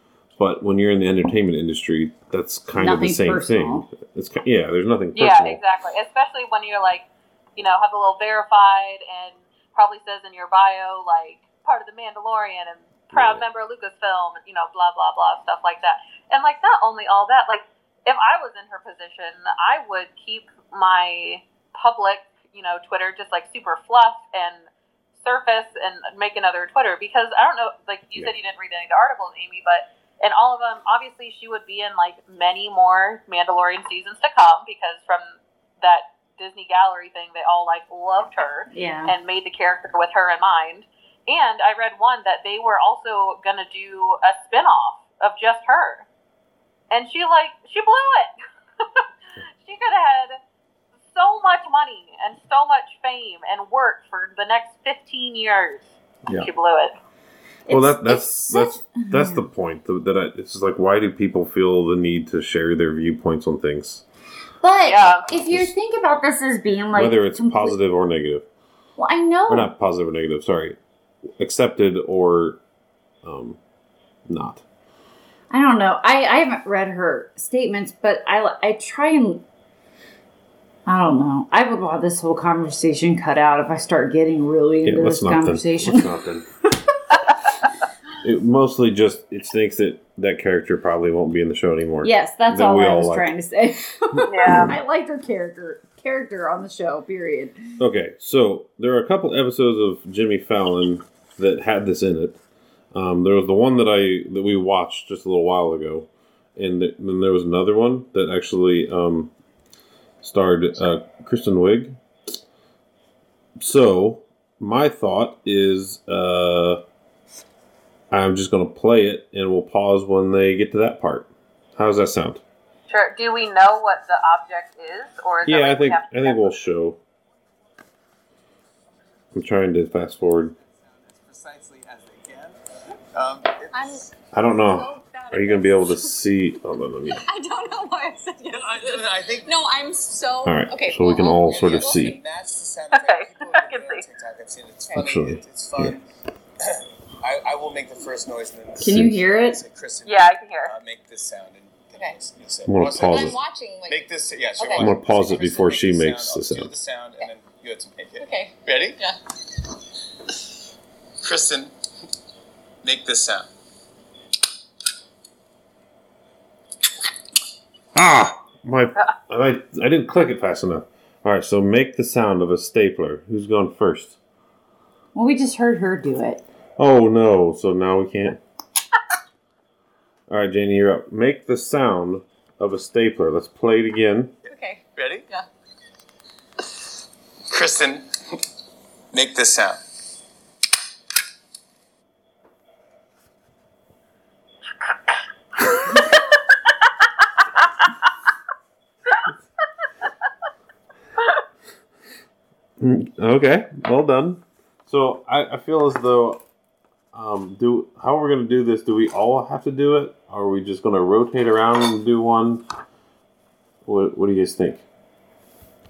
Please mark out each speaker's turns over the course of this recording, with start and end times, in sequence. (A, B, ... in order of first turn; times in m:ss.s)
0:00.4-0:05.6 A
0:02.8-0:03.9 B
0:05.2-0:24.7 C
0:13.1-0:13.4 A
0:25.2-0:46.1 C
0:38.7-0:39.1 B
0:46.9-0:49.0 C
0:49.6-0:50.4 C
0:51.1-0:56.9 C
0:57.7-0:59.4 B
0:57.7-1:04.0 A
1:04.6-1:07.8 B
1:04.8-1:05.3 C
1:05.3-1:05.7 A
1:07.0-1:08.5 A
1:09.0-1:09.7 B
1:09.5-1:10.8 A
1:11.4-1:12.6 A
1:13.2-1:13.6 A
1:14.3-1:14.6 A
1:15.5-1:19.4 B
1:20.9-1:26.1 B
1:24.8-1:26.5 A
1:28.2-1:33.3 A
1:32.0-1:37.6 B
1:34.2-1:34.8 A
1:34.3-1:34.8 C
1:37.8-1:42.4 A
1:42.9-1:49.3 A
1:50.2-1:52.0 A
1:53.6-1:56.8 A
1:58.1-2:02.4 A
2:02.9-2:06.6 C
2:05.4-2:07.0 A
2:09.3-2:10.6 A
2:10.7-2:12.6 D
2:13.1-2:14.1 D
2:13.7-2:14.1 E
2:14.3-2:17.2 A
2:14.6-2:16.2 E
2:17.2-2:22.2 E
2:18.6-2:19.6 D
2:20.4-2:22.2 A
2:21.4-2:26.0 D
2:22.9-2:24.0 C
2:25.0-2:26.0 A
2:26.6-2:39.0 D
2:28.8-2:29.6 B
2:28.8-2:29.2 A
2:30.0-2:30.7 C
2:32.7-2:33.4 A
2:32.9-2:34.1 E
2:34.6-2:35.0 E
2:34.8-2:36.7 A
2:38.2-2:39.2 E
2:41.2-2:41.7 D
2:42.8-2:43.5 D
2:47.9-2:54.2 A
2:55.2-2:56.4 B
2:56.8-2:58.4 A
3:00.3-3:04.3 A
3:04.5-3:05.5 E
3:04.9-3:05.3 D
3:07.5-3:08.4 D
3:09.1-3:09.8 D
3:15.8-3:16.0 C
3:22.8-3:26.4 A
3:27.1-3:32.6 A
3:33.8-3:34.8 A